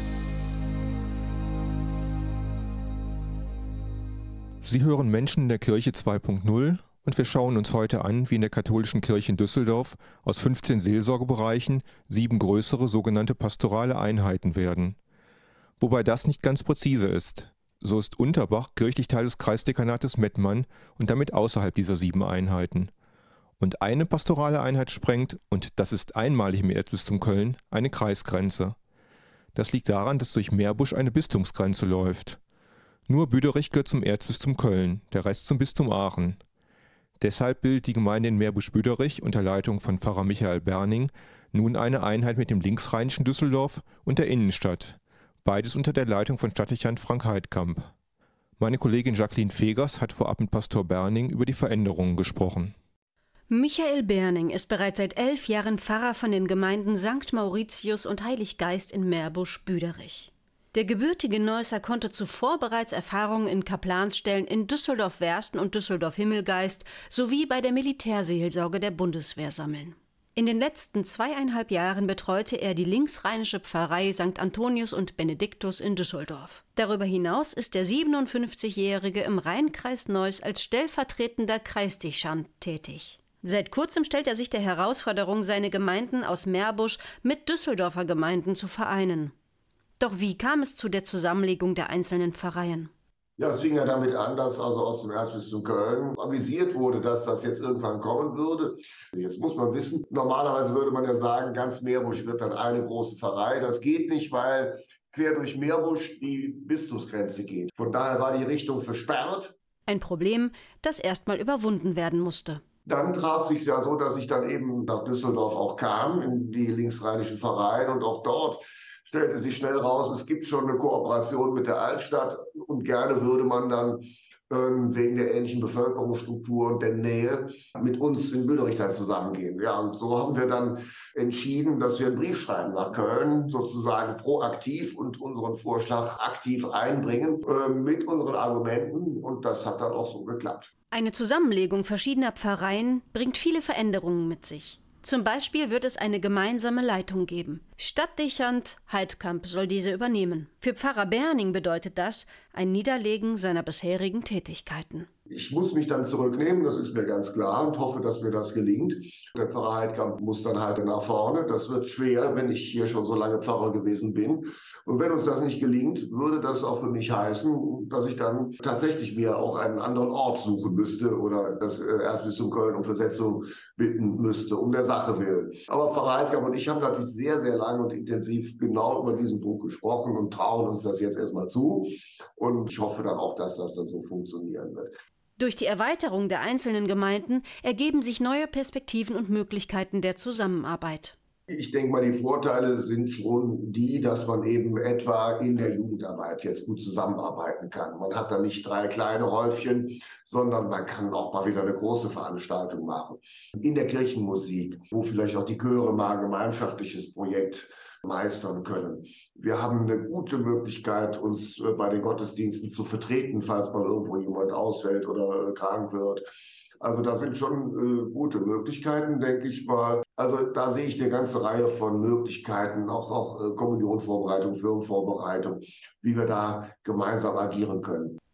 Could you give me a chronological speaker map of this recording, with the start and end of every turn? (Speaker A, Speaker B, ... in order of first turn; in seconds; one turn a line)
Speaker A: 4.6-15.0
Speaker A: 15.8-22.9
Speaker A: 23.6-28.8
Speaker A: 29.5-32.4
Speaker A: 33.1-36.4
Speaker A: 37.2-47.9
Speaker A: 48.6-52.7
Speaker B: 53.5-89.3
Speaker B: 90.0-92.9
Speaker C: 93.4-109.5
Speaker B: 109.9-112.6
Speaker C: 112.8-140.7
Speaker B: 140.9-155.1
Speaker C: 155.3-184.9
Speaker B: 185.4-191.2
Speaker C: 191.5-216.3
Speaker C: 216.8-228.2